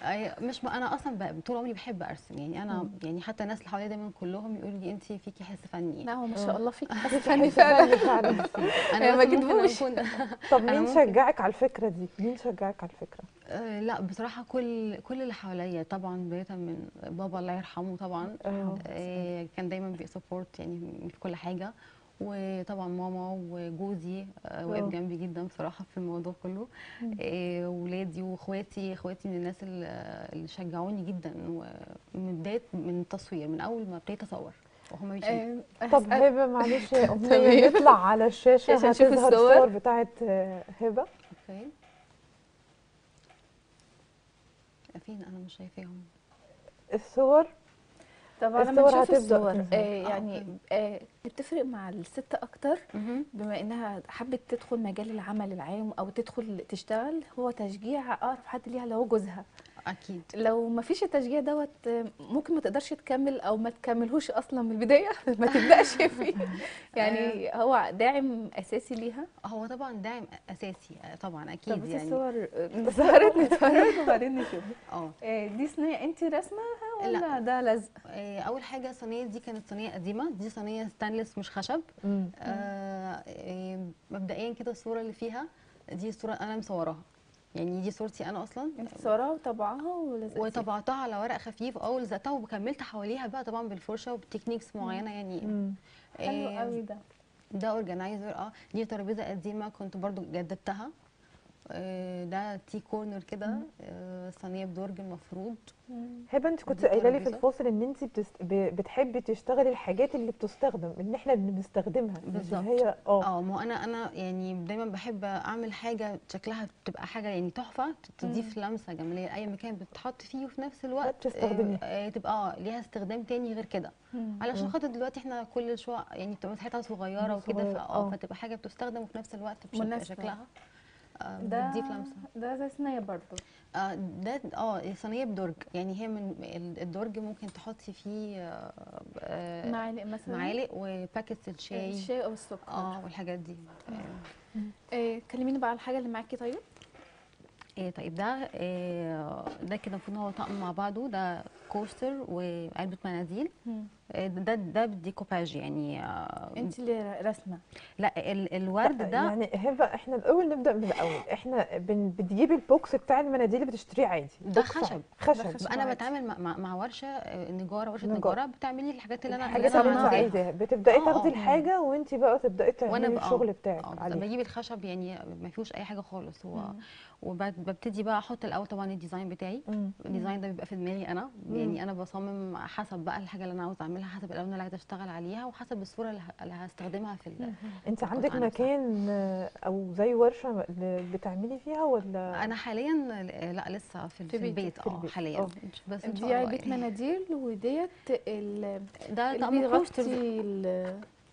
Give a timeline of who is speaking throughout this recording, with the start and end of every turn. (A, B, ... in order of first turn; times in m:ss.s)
0:00.1-0:06.1 A
0:06.0-0:09.9 B
0:06.3-0:08.7 C
0:07.0-0:11.2 A
0:10.5-0:13.2 C
0:13.5-0:35.4 A
0:18.4-0:19.3 C
0:18.5-0:18.8 B
0:24.7-0:24.9 C
0:35.2-0:38.0 B
0:35.9-0:41.1 C
0:38.7-0:39.7 B
0:41.4-0:41.7 A
0:45.0-0:46.1 A
0:47.0-0:47.5 C
0:48.4-0:52.8 B
0:48.6-0:49.9 C
0:50.0-0:50.5 A
0:52.9-0:53.3 A
0:53.3-0:59.4 B
0:59.8-1:00.3 A
1:00.3-1:09.2 B
1:07.0-1:07.4 A
1:09.4-1:12.2 A
1:11.7-1:14.7 B
1:12.8-1:14.6 C
1:14.9-1:15.2 A
1:15.2-1:17.9 B
1:17.0-1:17.3 A
1:18.1-1:21.8 A
1:22.0-1:22.4 C
1:22.4-1:27.0 A
1:27.6-1:29.1 A
1:28.8-1:30.6 B
1:30.3-1:35.6 A
1:35.4-1:35.8 C
1:36.2-1:36.8 A
1:36.2-1:37.0 B
1:37.6-1:40.9 A
1:41.7-1:45.7 A
1:45.9-1:46.2 B
1:46.3-1:53.3 C
1:46.7-1:47.4 A
1:52.3-2:10.5 A
1:58.2-1:58.5 B
2:01.0-2:01.8 C
2:04.1-2:04.4 B
2:07.2-2:08.2 C
2:09.7-2:10.3 B
2:11.2-2:12.2 A
2:11.4-2:13.4 B
2:13.8-2:22.1 A
2:19.6-2:20.5 B
2:21.7-2:23.0 B
2:22.7-2:24.3 A
2:24.9-2:26.6 B
2:27.8-2:33.5 A
2:34.2-2:36.7 A
2:36.6-2:37.6 B
2:38.0-2:39.3 A
2:38.8-2:45.7 C
2:44.4-2:45.1 A
2:45.3-2:46.1 B
2:45.6-2:51.7 A
2:48.0-2:48.4 C
2:49.3-2:54.2 C
2:49.5-2:50.3 B
2:52.9-3:08.7 A
2:56.5-2:56.8 B
2:59.7-2:59.9 C
3:00.1-3:00.4 B
3:01.5-3:01.8 C
3:07.9-3:12.5 C
3:12.4-3:16.9 A
3:14.3-3:14.7 B
3:14.8-3:15.5 C
3:16.0-3:21.0 B
3:19.1-3:20.2 A